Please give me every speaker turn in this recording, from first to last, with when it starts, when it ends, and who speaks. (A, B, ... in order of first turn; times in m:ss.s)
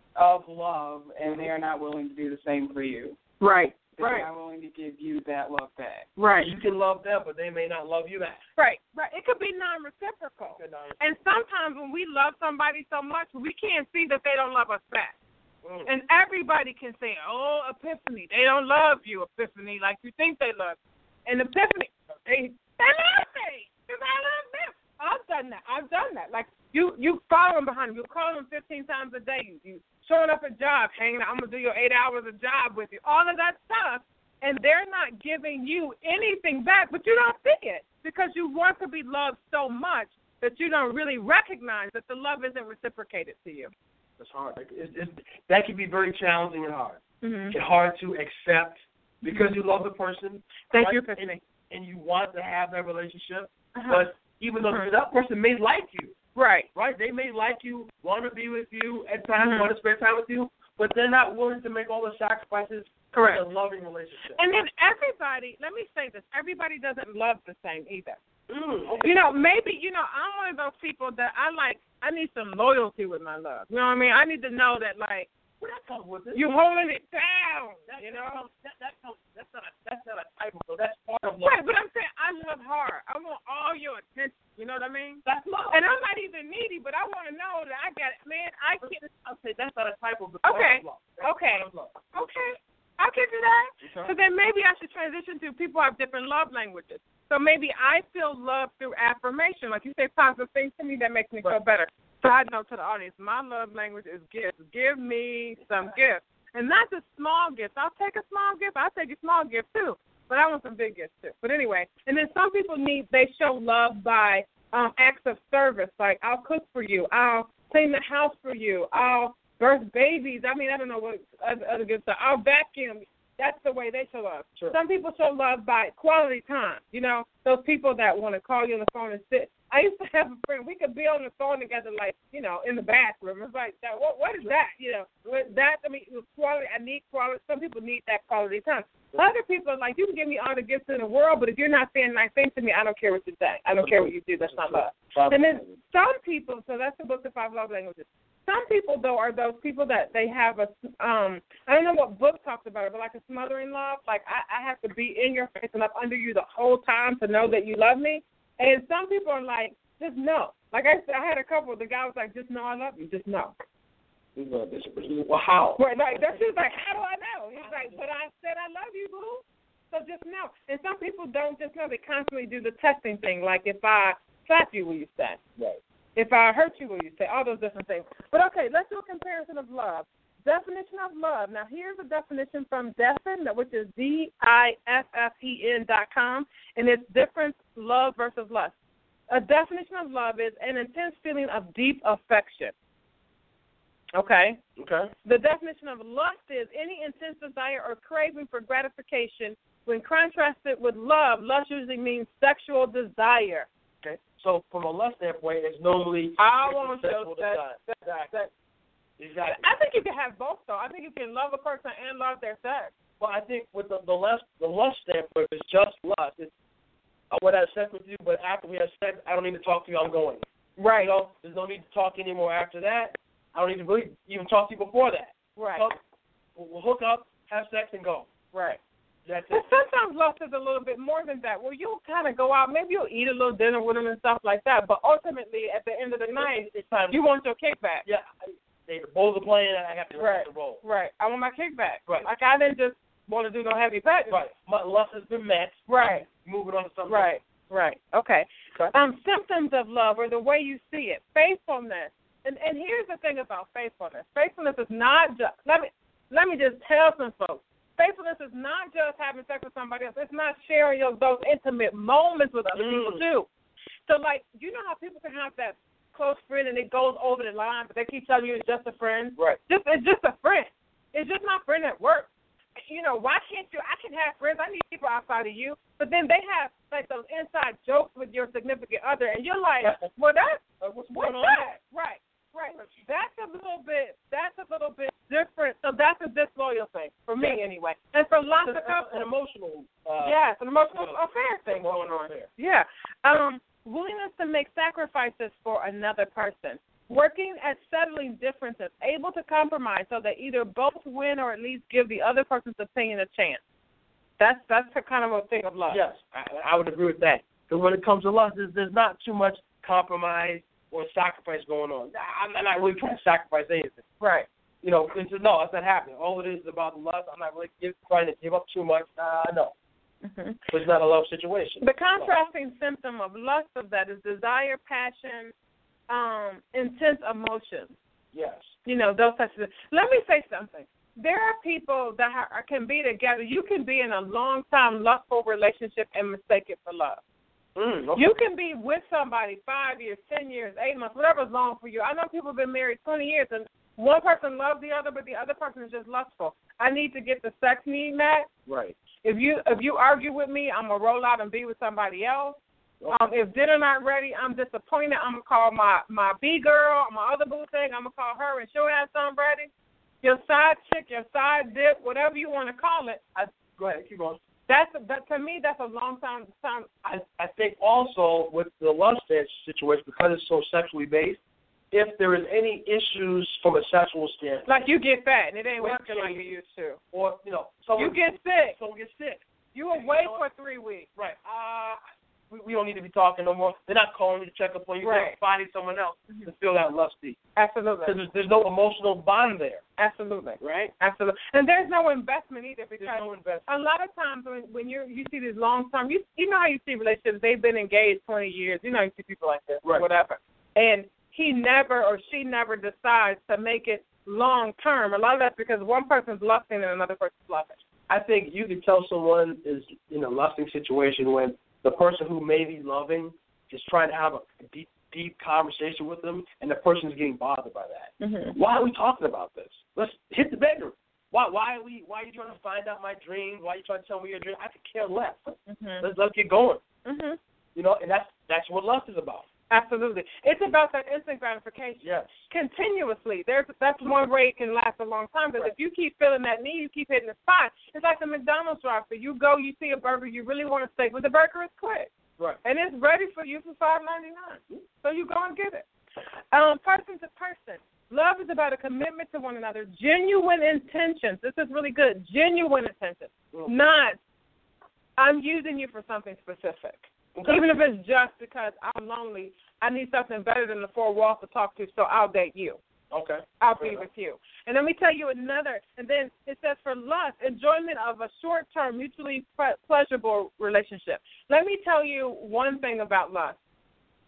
0:00.2-0:03.2 A
0:03.4-0:04.3 B
0:03.9-0:06.1 A
0:06.2-0:06.5 B
0:06.4-0:08.4 C
0:08.6-0:15.1 B
0:10.6-0:11.0 C
0:15.6-0:15.9 C
0:15.9-0:21.9 B
0:22.3-0:22.5 C
0:22.5-0:43.7 B
0:44.2-0:56.1 C
0:47.2-0:47.5 B
0:49.2-0:49.6 B
0:50.7-0:51.4 B
0:53.8-0:54.1 B
0:56.4-0:56.7 B
0:56.8-1:04.4 C
0:59.4-0:59.7 B
1:03.1-1:03.4 B
1:04.4-1:08.2 B
1:08.5-1:09.2 C
1:09.0-1:15.3 B
1:15.6-1:16.5 C
1:16.3-1:18.4 B
1:17.9-1:21.6 C
1:21.4-1:29.1 B
1:25.2-1:25.8 C
1:28.8-1:32.0 C
1:30.4-2:43.5 B
1:33.8-1:34.1 C
2:23.8-2:25.8 C
2:44.4-2:46.3 C
2:45.8-2:55.4 B
2:47.6-2:48.0 C
2:56.2-3:08.7 B
3:09.3-3:12.7 B
3:14.1-3:14.6 B
3:14.8-3:15.1 C
3:15.2-3:23.7 B
3:24.0-3:28.3 C
3:26.4-3:28.5 B
3:29.2-3:29.6 C
3:29.5-3:32.9 B
3:33.2-3:36.5 C
3:37.3-3:40.4 C
3:40.8-3:41.1 B
3:41.0-3:46.0 C
3:45.6-3:45.9 B
3:46.6-3:48.3 C
3:48.5-3:48.8 B
3:49.2-3:49.6 C
3:49.5-3:58.0 B
3:56.4-3:57.2 C
3:58.0-4:00.8 C
4:00.2-4:04.4 B
4:04.3-4:07.3 C
4:05.9-4:06.2 B
4:07.1-4:23.5 B
4:22.8-4:23.2 C
4:24.1-4:40.6 B
4:39.8-4:40.1 C
4:40.8-4:41.7 C
4:41.1-4:49.2 B
4:48.6-4:50.4 C
4:50.2-5:03.6 B
4:50.9-4:52.5 C
5:04.4-5:06.0 B
5:05.9-5:14.0 C
5:14.2-5:14.5 B
5:14.8-5:19.7 C
5:20.2-5:20.6 B
5:20.7-5:22.3 C
5:21.8-5:25.5 B
5:26.1-5:27.9 B
5:28.3-5:28.8 C
5:28.9-5:37.2 B
5:37.8-5:38.3 C
5:38.2-5:48.5 B
5:48.7-5:48.9 C
5:49.2-5:59.7 B
6:00.2-6:03.2 B
6:03.4-6:04.4 C
6:04.7-6:06.9 B
6:07.0-6:11.4 C
6:11.9-6:14.7 C
6:14.6-6:17.0 B
6:15.8-6:16.5 C
6:17.1-6:20.4 C
6:18.0-6:18.8 B
6:19.7-6:21.1 B
6:21.2-6:27.4 C
6:25.0-6:25.4 B
6:27.6-6:28.1 B
6:28.0-6:29.8 C
6:30.0-6:47.8 B
6:30.6-6:30.9 C
6:33.0-6:33.7 C
6:48.1-7:06.8 C
6:58.2-6:58.6 B
7:05.7-7:06.0 B
7:07.0-7:07.4 B
7:07.7-7:09.4 C
7:09.7-7:22.1 B
7:12.0-7:12.4 C
7:22.6-7:25.9 B
7:26.5-7:34.2 B
7:35.2-7:42.8 B
7:37.4-7:37.6 C
7:43.1-7:44.0 C
7:43.6-7:53.6 B